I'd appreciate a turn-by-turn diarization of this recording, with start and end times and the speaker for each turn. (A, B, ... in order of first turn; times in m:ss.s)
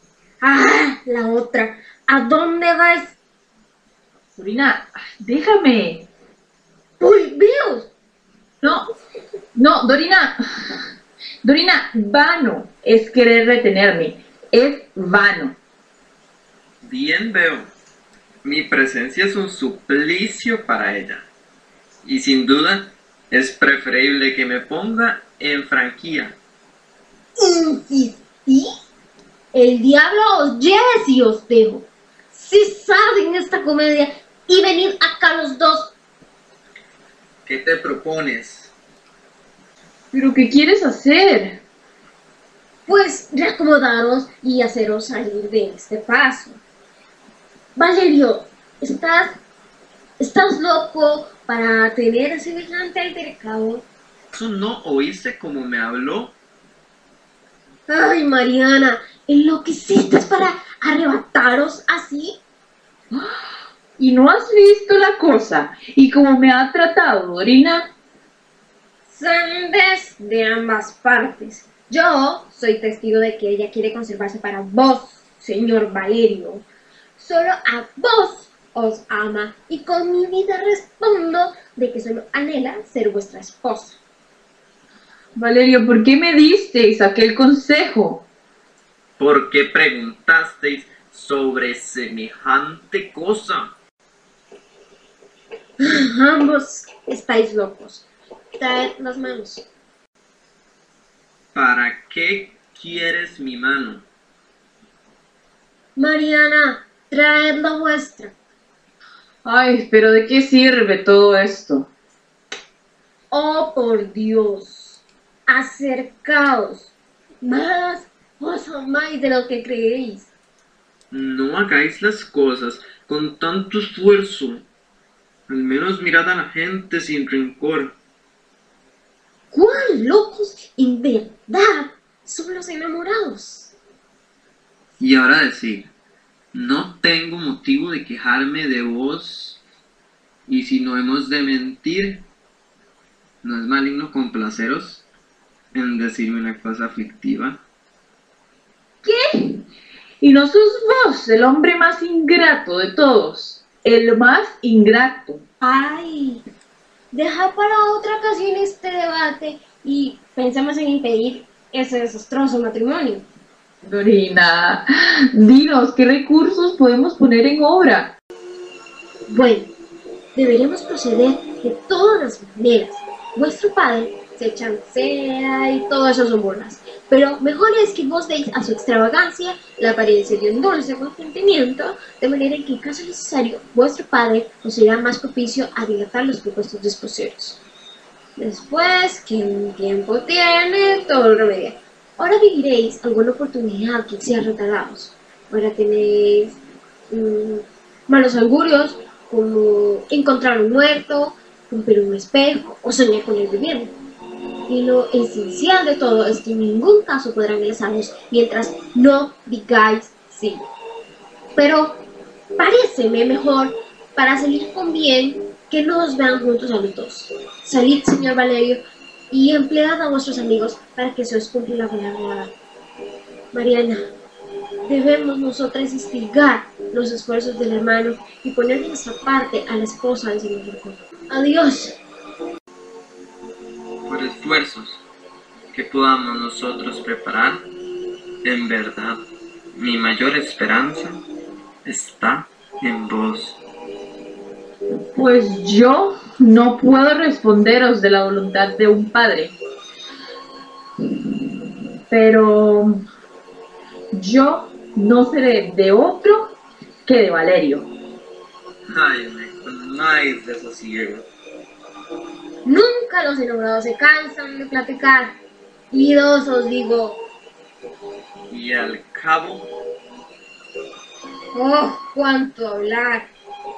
0:00.4-0:03.1 A
0:04.3-0:06.1 B
0:07.0-0:07.9 A
0:08.6-0:08.9 B
0:09.6-0:10.3 B
0:11.4-0:15.6 B
0:16.8-0:17.7 C
0:18.4-0:21.3 C
0:22.0-0:26.4 C
0:27.4-0:28.7 A
0:29.5-0:35.9 A
0:37.4-0:38.7 C
0:40.1-0:41.6 B
0:42.9-0:46.6 A
0:47.8-0:49.4 A
0:50.2-0:53.8 A
0:54.3-0:56.4 C
0:57.9-1:02.4 A
1:04.0-1:07.9 B
1:09.1-1:16.6 A
1:17.2-1:24.0 A
1:25.4-1:28.2 B
1:29.2-1:33.8 C
1:35.8-1:38.0 A
1:38.6-1:39.7 A
1:41.5-1:44.0 C
1:46.0-1:48.3 A
1:49.4-1:51.9 B
1:53.3-2:00.3 A
2:01.1-2:04.7 C
2:05.5-2:08.0 C
2:09.5-2:13.7 A
2:15.0-2:15.9 C
2:16.5-2:19.6 C
2:20.5-2:22.2 C
2:23.4-2:25.0 C
2:25.7-2:27.6 C
2:29.0-2:29.6 B
2:30.2-2:35.4 B
2:35.6-2:36.4 A
2:37.1-2:43.3 A
2:43.8-2:48.2 B
2:49.3-2:49.7 A
2:50.4-3:07.6 A
3:08.4-3:16.6 A
3:17.1-3:24.0 A
3:24.7-3:30.7 A
3:31.6-3:32.0 A
3:32.6-3:42.5 A
3:43.5-3:44.1 A
3:44.9-3:52.0 A
3:54.0-3:55.0 C
3:55.7-3:57.6 C
3:58.4-3:59.2 C
3:59.8-4:01.2 C
4:01.8-4:03.6 C
4:05.2-4:09.6 B
4:12.1-4:13.0 B
4:14.1-4:17.9 B
4:18.9-4:21.3 C
4:22.6-4:25.4 A
4:25.9-4:27.2 A
4:28.5-4:29.7 C
4:31.5-4:33.3 A